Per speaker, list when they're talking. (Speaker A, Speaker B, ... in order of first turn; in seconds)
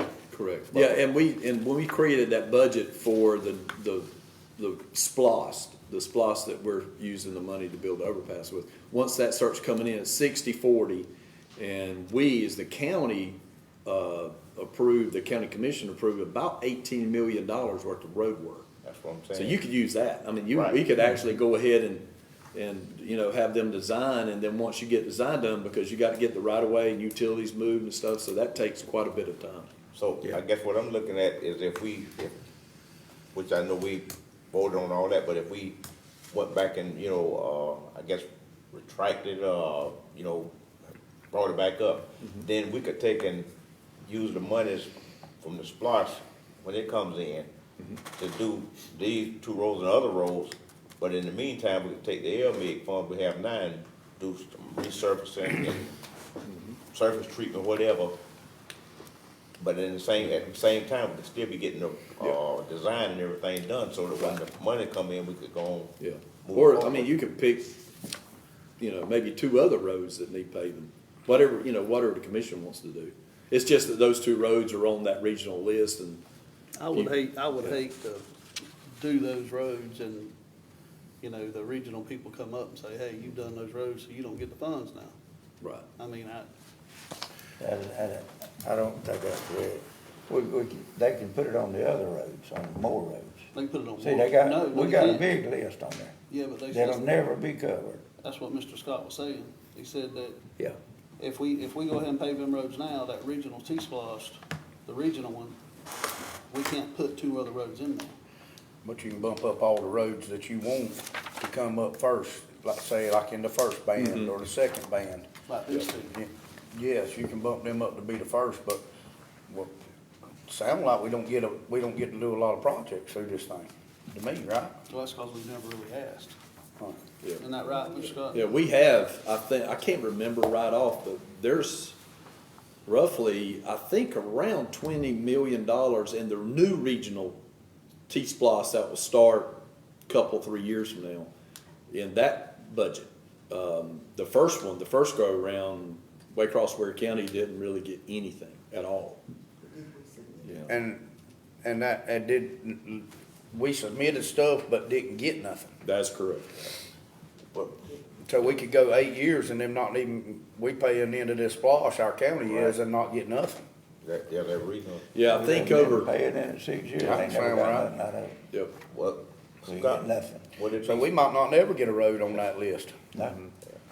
Speaker A: 0.3-18.7, 19.3-29.7, 56.5-56.8, 66.0-67.8, 68.8-76.2, 76.9-77.8, 114.0-114.3, 128.3-132.0, 132.8-137.4, 138.1-141.3, 141.9-149.2, 155.8-156.7, 165.1-166.1
Speaker B: 0.7-1.0, 18.8-19.6, 20.5-20.8, 29.9-32.4, 33.3-35.8, 36.3-40.5, 41.3-43.5, 44.0-47.5, 48.1-55.9, 56.9-58.1, 59.6-67.1, 162.4-162.8, 164.0-165.1, 168.9-171.1
Speaker C: 76.8-78.2, 79.0-80.3, 81.2-85.1, 86.0-86.5, 93.5-95.3, 96.3-97.2, 98.2-100.4, 101.2-105.5, 106.5-108.1, 115.5-116.2, 124.9-126.3, 127.4-128.5
Speaker D: 87.6-93.5, 94.0-96.1, 96.7-98.0, 165.2-168.3, 169.7-170.5
Speaker E: 108.8-115.3, 116.0-118.8, 119.5-119.8, 120.5-124.8, 150.7-151.0, 151.6-155.7, 158.2-163.6, 167.0-167.9, 170.8-173.5